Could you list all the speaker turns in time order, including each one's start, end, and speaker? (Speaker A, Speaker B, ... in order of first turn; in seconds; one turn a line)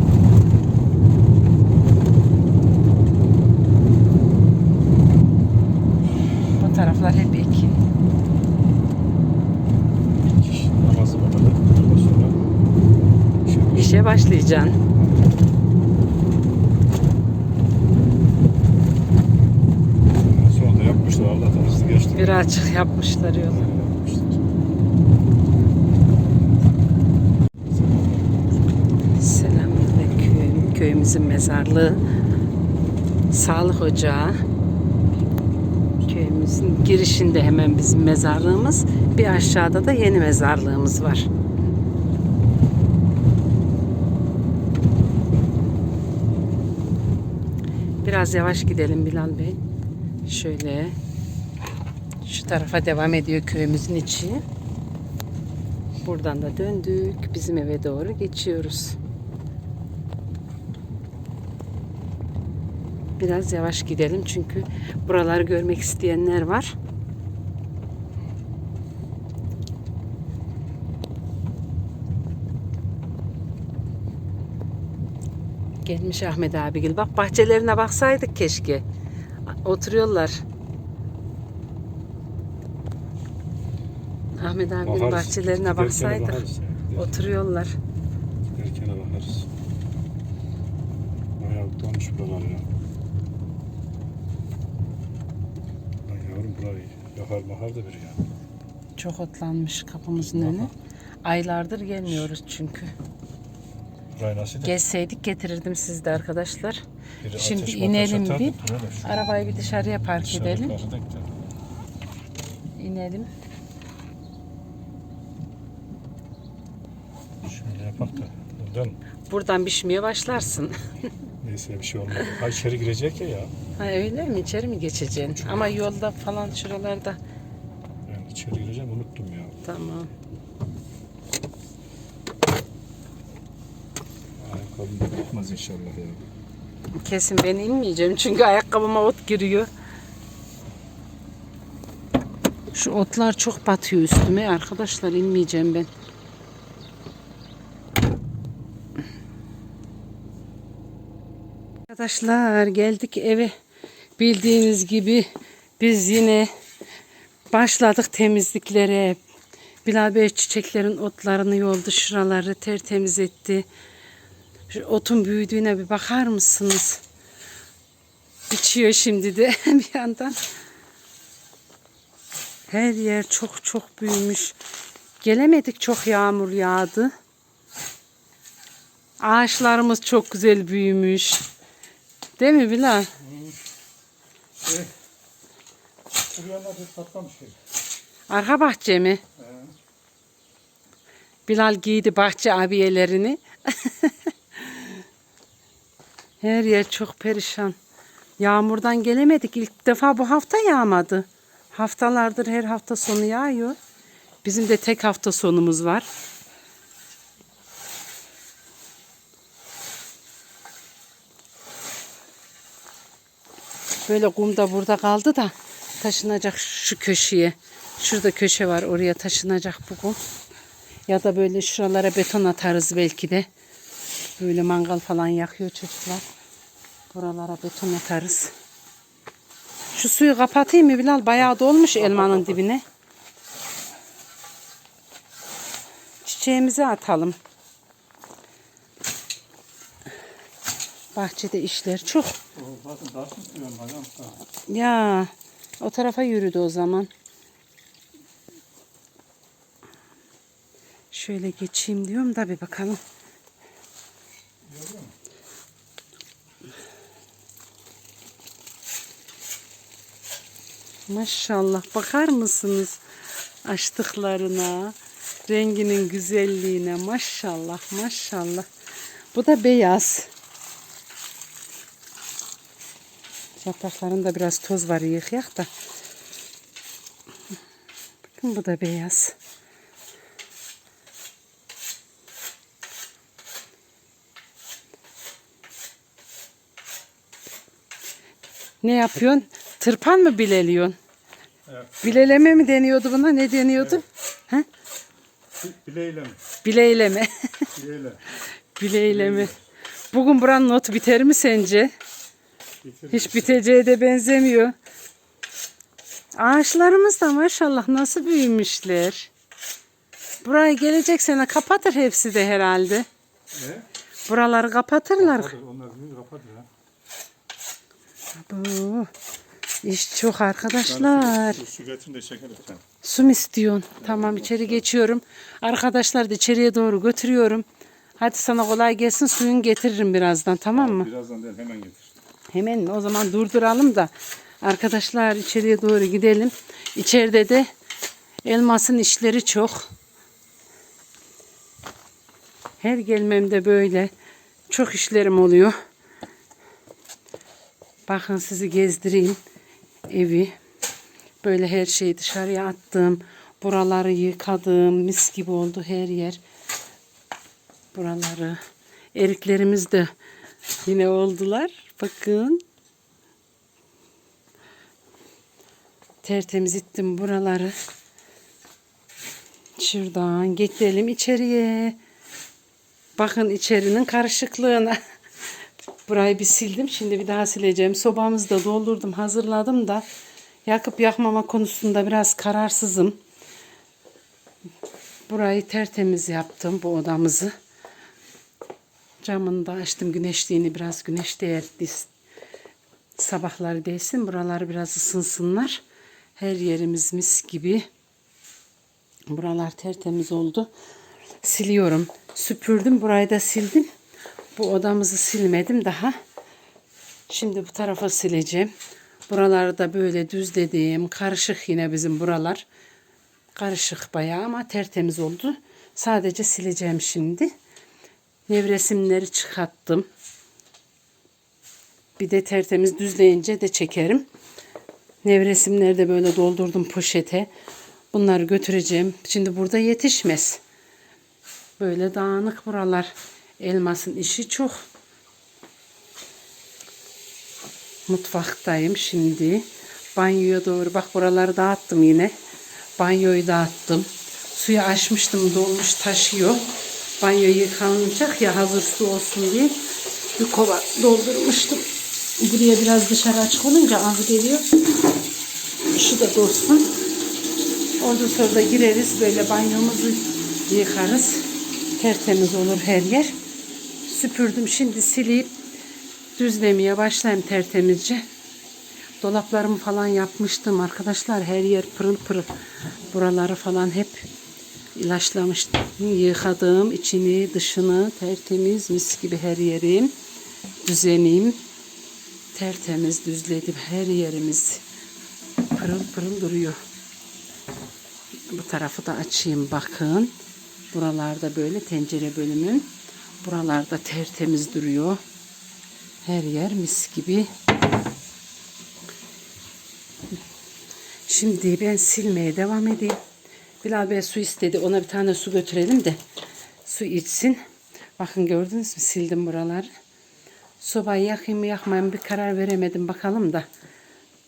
Speaker A: 6.6-7.8
Speaker B: 10.2-12.4
Speaker B: 13.4-14.3
Speaker A: 13.7-14.8
Speaker B: 14.9-15.4
Speaker B: 20.2-22.5
Speaker A: 22.1-23.7
Speaker B: 23.5-24.4
Speaker B: 27.7-28.7
Speaker A: 29.1-32.0
Speaker A: 33.3-34.4
Speaker A: 36.0-41.3
Speaker A: 48.0-49.6
Speaker A: 50.2-51.0
Speaker A: 52.2-54.4
Speaker A: 56.0-59.0
Speaker A: 63.2-66.8
Speaker A: 75.8-78.8
Speaker A: 79.5-80.4
Speaker A: 84.4-86.4
Speaker B: 84.8-87.2
Speaker A: 86.9-87.8
Speaker B: 88.5-89.5
Speaker B: 91.4-92.7
Speaker B: 96.0-98.2
Speaker A: 99.0-100.7
Speaker B: 100.2-100.7
Speaker A: 101.2-102.9
Speaker B: 104.1-104.8
Speaker A: 104.6-106.8
Speaker B: 107.2-111.3
Speaker A: 107.3-110.8
Speaker A: 112.8-113.3
Speaker B: 117.4-119.0
Speaker A: 119.3-120.8
Speaker B: 121.4-123.5
Speaker A: 123.8-127.2
Speaker B: 128.1-129.6
Speaker A: 129.6-130.1
Speaker B: 134.4-136.2
Speaker A: 136.9-139.7
Speaker A: 142.7-145.9
Speaker A: 151.9-153.5
Speaker A: 154.2-155.3
Speaker A: 155.8-156.5
Speaker A: 157.5-159.2
Speaker A: 159.8-163.7
Speaker A: 164.7-167.0
Speaker A: 168.5-170.4
Speaker A: 172.7-174.6
Speaker A: 175.2-177.1
Speaker A: 179.2-181.4
Speaker A: 182.4-183.1
Speaker B: 184.6-184.9
Speaker B: 186.3-187.5
Speaker A: 188.3-189.2
Speaker B: 189.4-189.7
Speaker A: 191.5-195.0
Speaker A: 196.4-197.8
Speaker A: 198.4-203.8
Speaker A: 204.4-206.1
Speaker A: 214.1-220.2
Speaker A: 221.1-223.5
Speaker A: 224.4-226.2
Speaker A: 227.1-228.5
Speaker A: 229.9-232.8
Speaker A: 236.2-237.4
Speaker A: 241.1-242.4
Speaker B: 242.5-244.3
Speaker A: 244.7-247.1
Speaker A: 251.1-253.0
Speaker B: 254.7-255.1
Speaker A: 261.1-263.0
Speaker A: 263.6-264.9
Speaker A: 265.5-268.7
Speaker A: 269.3-270.3
Speaker A: 273.6-275.7
Speaker A: 278.4-279.4
Speaker A: 288.8-291.0
Speaker B: 291.7-292.1
Speaker A: 292.0-294.6
Speaker B: 295.6-296.4
Speaker A: 296.6-297.7
Speaker B: 297.7-298.2
Speaker A: 298.8-299.5
Speaker B: 299.1-299.6
Speaker A: 300.1-301.9
Speaker B: 302.8-303.6
Speaker A: 303.1-304.7
Speaker A: 306.3-309.3
Speaker A: 310.4-313.1
Speaker B: 313.5-313.9
Speaker A: 314.3-315.6
Speaker B: 315.2-316.7
Speaker A: 318.4-319.1
Speaker A: 319.8-321.6
Speaker B: 320.8-322.8
Speaker A: 323.0-327.6
Speaker B: 324.1-324.7
Speaker A: 328.2-331.1
Speaker B: 330.7-332.1
Speaker A: 332.5-337.7
Speaker A: 338.4-339.9
Speaker A: 342.8-344.1
Speaker A: 344.7-345.7
Speaker A: 348.1-349.4
Speaker A: 350.1-350.5
Speaker A: 351.4-356.4
Speaker A: 357.9-358.6
Speaker A: 359.1-360.1
Speaker A: 360.8-362.6
Speaker A: 366.2-367.7
Speaker A: 369.8-372.0
Speaker A: 373.2-375.0
Speaker A: 376.1-380.1
Speaker A: 380.6-383.2
Speaker A: 385.3-387.5
Speaker A: 389.2-392.1
Speaker A: 393.2-395.8
Speaker A: 396.4-397.9
Speaker A: 399.3-400.7
Speaker A: 401.4-403.9
Speaker A: 404.6-406.2
Speaker A: 407.3-408.7
Speaker A: 409.3-412.6
Speaker A: 413.6-417.5
Speaker A: 418.5-420.1
Speaker A: 422.2-424.3
Speaker A: 425.2-427.5
Speaker A: 428.1-430.6
Speaker A: 431.8-434.8
Speaker A: 438.1-442.3
Speaker A: 443.0-446.7
Speaker A: 447.2-449.8
Speaker A: 450.4-451.9
Speaker A: 452.4-454.7
Speaker A: 455.9-456.9
Speaker A: 458.0-463.3
Speaker A: 464.0-465.5
Speaker A: 466.4-468.2
Speaker A: 469.2-474.3
Speaker A: 474.9-480.1
Speaker A: 480.8-481.6
Speaker A: 482.5-484.8
Speaker A: 485.7-486.8
Speaker A: 488.5-490.3
Speaker A: 490.9-495.2
Speaker A: 496.2-497.5
Speaker A: 501.3-503.2
Speaker A: 503.8-506.2
Speaker A: 506.8-507.6
Speaker A: 508.2-509.9
Speaker A: 510.8-513.6